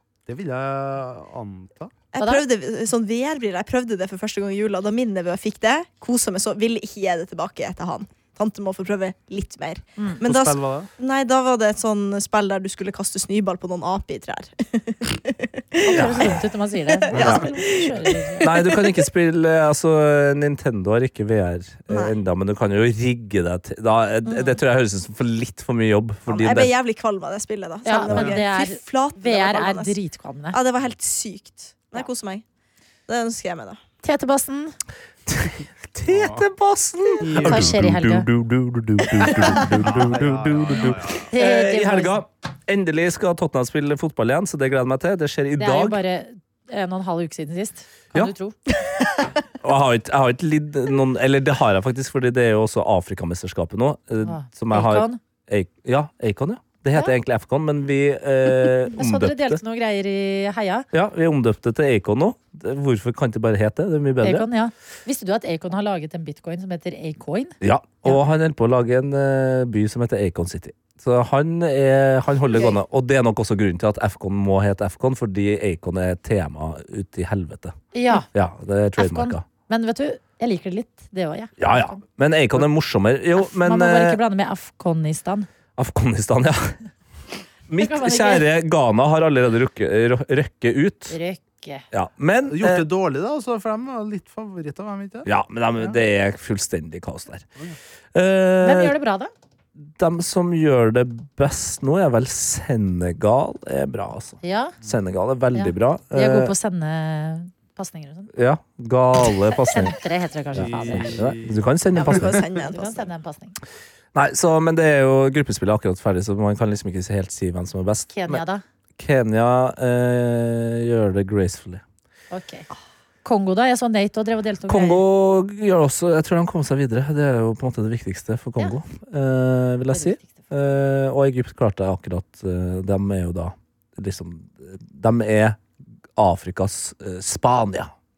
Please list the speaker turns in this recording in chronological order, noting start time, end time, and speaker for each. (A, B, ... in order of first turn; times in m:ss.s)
0:00.3-0:01.9 A
0:02.1-0:16.4 B
0:02.2-0:02.4 C
0:10.2-0:10.9 A
0:15.8-0:18.4 C
0:15.9-0:16.4 D
0:16.9-0:19.0 B
0:17.1-0:17.5 D
0:18.4-0:26.7 D
0:21.9-0:22.2 B
0:24.2-0:24.6 B
0:26.3-0:30.0 B
0:27.8-0:30.6 C
0:30.5-0:32.4 B
0:33.1-0:33.8 B
0:34.0-0:34.8 C
0:35.3-0:46.0 D
0:36.1-0:36.4 A
0:37.2-0:37.8 A
0:37.4-0:38.3 C
0:39.4-0:39.7 B
0:39.6-0:41.3 A
0:41.3-0:42.2 C
0:45.6-0:48.6 C
0:48.7-0:49.3 B
0:49.6-0:59.6 D
0:54.2-0:55.2 C
0:59.0-1:00.9 C
1:00.9-1:04.5 D
1:04.2-1:08.2 C
1:07.6-1:17.8 D
1:12.5-1:12.8 B
1:17.9-1:18.3 C
1:18.3-1:19.4 D
1:19.0-1:22.0 C
1:21.6-1:24.2 D
1:23.4-1:25.5 C
1:25.8-1:26.8 D
1:27.7-1:31.2 D
1:27.8-1:28.5 C
1:31.1-1:31.8 C
1:31.9-1:32.9 D
1:32.5-1:36.0 A
1:35.3-1:37.5 D
1:38.1-1:39.0 D
1:38.6-1:39.3 C
1:39.9-1:46.5 D
1:44.4-1:44.8 C
1:45.5-1:48.3 C
1:48.3-1:50.0 D
1:49.5-1:51.3 C
1:50.6-1:51.6 A
1:50.6-1:52.4 D
1:52.0-1:53.1 B
1:52.7-1:53.6 C
1:54.1-1:58.4 D
1:58.1-1:58.6 C
1:59.0-2:01.8 D
2:02.3-2:02.7 C
2:03.2-2:05.0 C
2:04.7-2:15.6 D
2:09.9-2:10.3 C
2:16.2-2:17.9 D